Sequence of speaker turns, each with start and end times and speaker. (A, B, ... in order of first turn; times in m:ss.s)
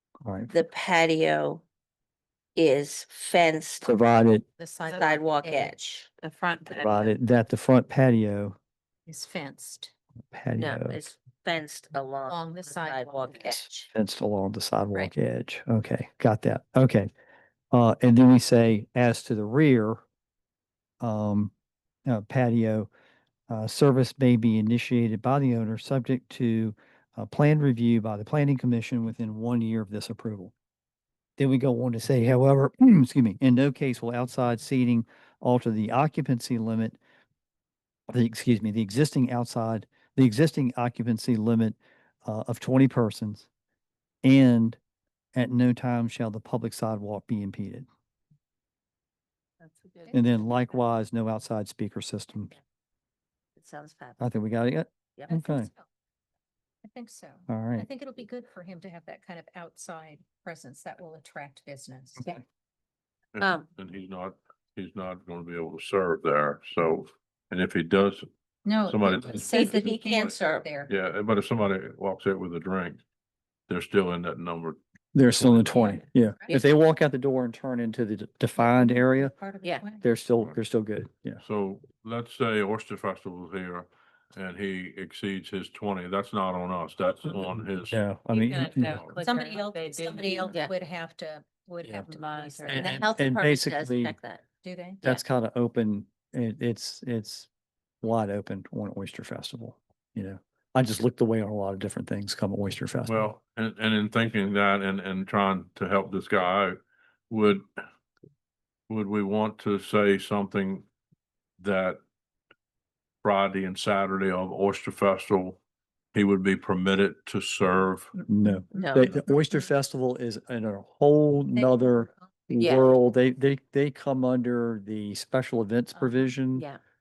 0:00.2-0:00.5 A
0:00.5-0:01.6 B
0:02.6-0:04.0 B
0:03.8-0:04.4 A
0:04.6-0:06.0 C
0:04.9-0:06.1 B
0:06.2-0:07.1 D
0:06.7-0:08.6 A
0:09.1-0:09.9 C
0:10.3-0:11.1 A
0:10.6-0:13.6 B
0:12.3-0:13.9 C
0:13.9-0:17.1 A
0:17.7-0:20.0 A
0:21.0-0:21.5 A
0:22.1-0:22.9 A
0:23.5-0:30.5 A
0:31.4-0:37.0 A
0:38.1-0:43.5 A
0:44.2-0:44.8 A
0:45.4-0:47.9 A
0:49.6-0:50.2 D
0:50.1-0:50.4 C
0:50.1-0:52.5 A
0:53.6-0:54.2 B
0:54.2-0:55.7 A
0:55.3-0:55.8 C
0:56.8-1:02.3 C
0:57.5-0:57.9 A
1:03.3-1:08.3 E
1:03.4-1:03.7 B
1:08.6-1:10.9 C
1:08.8-1:10.4 E
1:09.4-1:10.7 B
1:10.9-1:13.0 E
1:13.7-1:14.8 E
1:15.1-1:19.3 A
1:15.3-1:15.9 E
1:15.7-1:16.6 C
1:18.6-1:20.1 C
1:20.0-1:21.4 A
1:21.4-1:29.2 E
1:27.9-1:29.0 A
1:28.3-1:30.6 D
1:29.2-1:32.8 C
1:32.0-1:32.9 D
1:32.7-1:34.2 A
1:32.8-1:34.4 B
1:34.6-1:35.0 C
1:35.0-1:37.5 A
1:38.0-1:43.3 A
1:43.1-1:46.8 E
1:47.3-1:47.7 E
1:48.9-1:50.9 E
1:51.6-1:52.0 E
1:53.2-1:55.6 E
1:56.1-1:58.1 E
1:58.3-2:06.7 A
1:58.8-1:59.1 B
2:01.5-2:02.2 C
2:02.6-2:02.9 B
2:06.0-2:06.3 C
2:06.5-2:06.8 B